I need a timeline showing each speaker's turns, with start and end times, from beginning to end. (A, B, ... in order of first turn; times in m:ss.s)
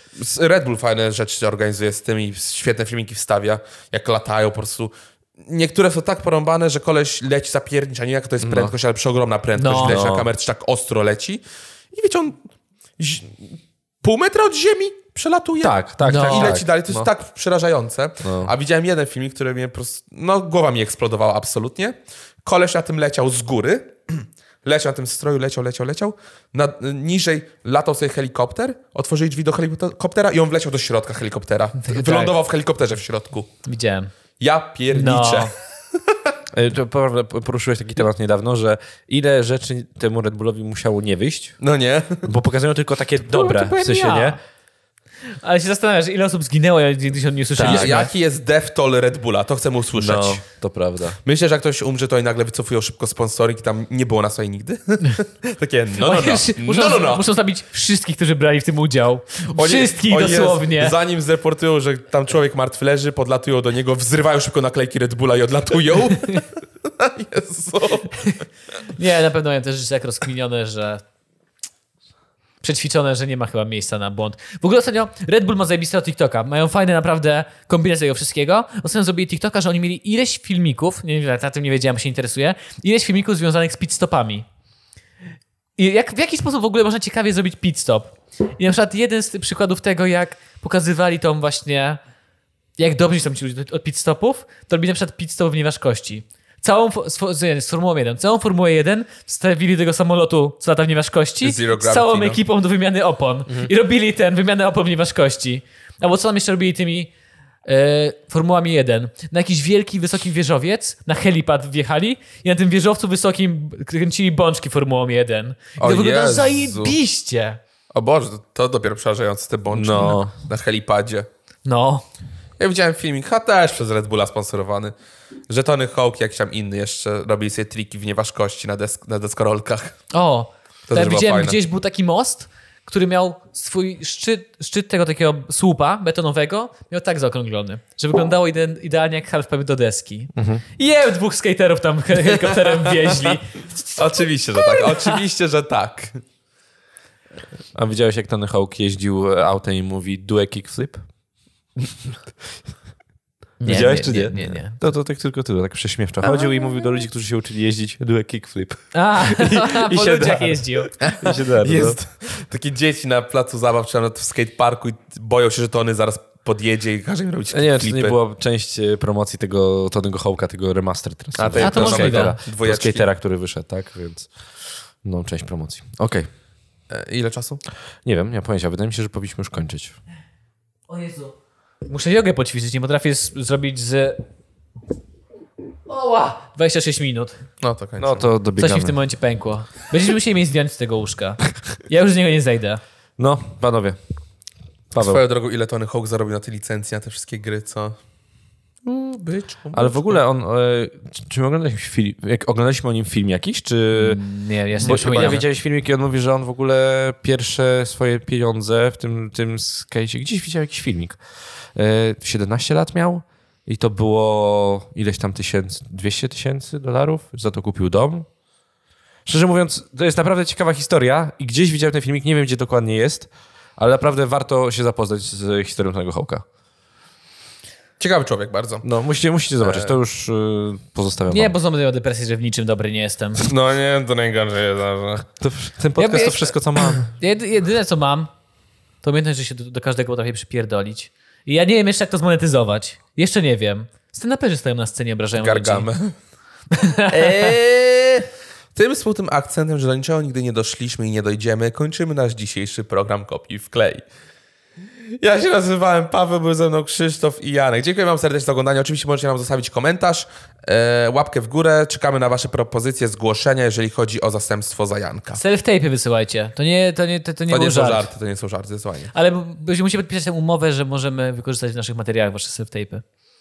0:00.2-0:12.4 A
0:08.4-0:08.7 B
0:09.6-0:10.0 C
0:09.8-0:10.3 B
0:13.0-0:33.5 A
0:15.6-0:17.1 B
0:16.0-0:16.6 C
0:18.2-0:18.5 B
0:31.8-0:32.4 C
0:33.6-0:34.1 C
0:34.4-0:35.5 A
0:34.9-0:35.5 C
0:36.5-0:41.6 B
0:41.6-0:42.2 A
0:42.2-0:44.4 B
0:43.2-0:44.4 C
0:45.4-0:48.1 C
0:47.6-0:48.0 B
0:47.6-0:50.4 A
0:50.0-0:51.2 B
0:51.2-0:57.2 A
0:56.0-1:01.0 C
0:59.6-1:08.3 A
1:09.0-1:11.0 C
1:12.6-1:24.4 C
1:25.8-1:32.0 C
1:32.8-1:47.1 C
1:41.4-1:42.4 A
1:47.6-1:57.6 C
1:55.8-1:57.0 A
1:57.9-2:01.3 A
1:59.7-2:00.3 B
2:01.6-2:02.0 C
2:02.6-2:04.9 A
2:05.5-2:10.0 A
2:10.1-2:25.2 C
2:10.9-2:11.6 A
2:20.4-2:20.6 B
2:22.7-2:23.4 A
2:24.0-2:26.2 A
2:27.8-2:31.0 B
2:33.6-2:34.8 C
2:33.6-2:42.0 B
2:38.9-2:40.9 C
2:41.0-2:48.2 A
2:47.5-2:54.3 B
2:51.4-2:53.1 A
2:51.6-2:52.4 C
2:55.0-2:56.3 B
2:56.9-2:57.6 A
2:58.0-3:00.0 B
3:00.9-3:01.3 C
3:01.9-3:04.2 C
3:05.9-3:07.4 C
3:07.6-3:08.3 A
3:08.0-3:09.0 B
3:08.6-3:12.8 C
3:13.2-3:14.0 B
3:14.9-3:15.2 B
3:15.0-3:18.0 A
3:18.8-3:20.2 A
3:19.7-3:24.2 B
3:23.9-3:25.4 C
3:24.8-3:31.2 B
3:24.8-3:25.4 A
3:31.8-3:38.3 B
3:39.3-3:46.4 B
3:48.0-3:48.8 A
3:48.8-3:51.6 B
3:49.6-3:50.0 A
3:51.3-3:53.5 C
3:53.4-3:55.3 A
3:55.4-3:57.1 B
3:56.0-3:58.3 C
3:59.0-4:05.9 C
4:05.4-4:06.1 A
4:06.7-4:07.6 C
4:07.1-4:14.0 A
4:15.2-4:25.4 A
4:25.4-4:28.1 C
4:27.5-4:29.1 A
4:29.1-4:33.0 C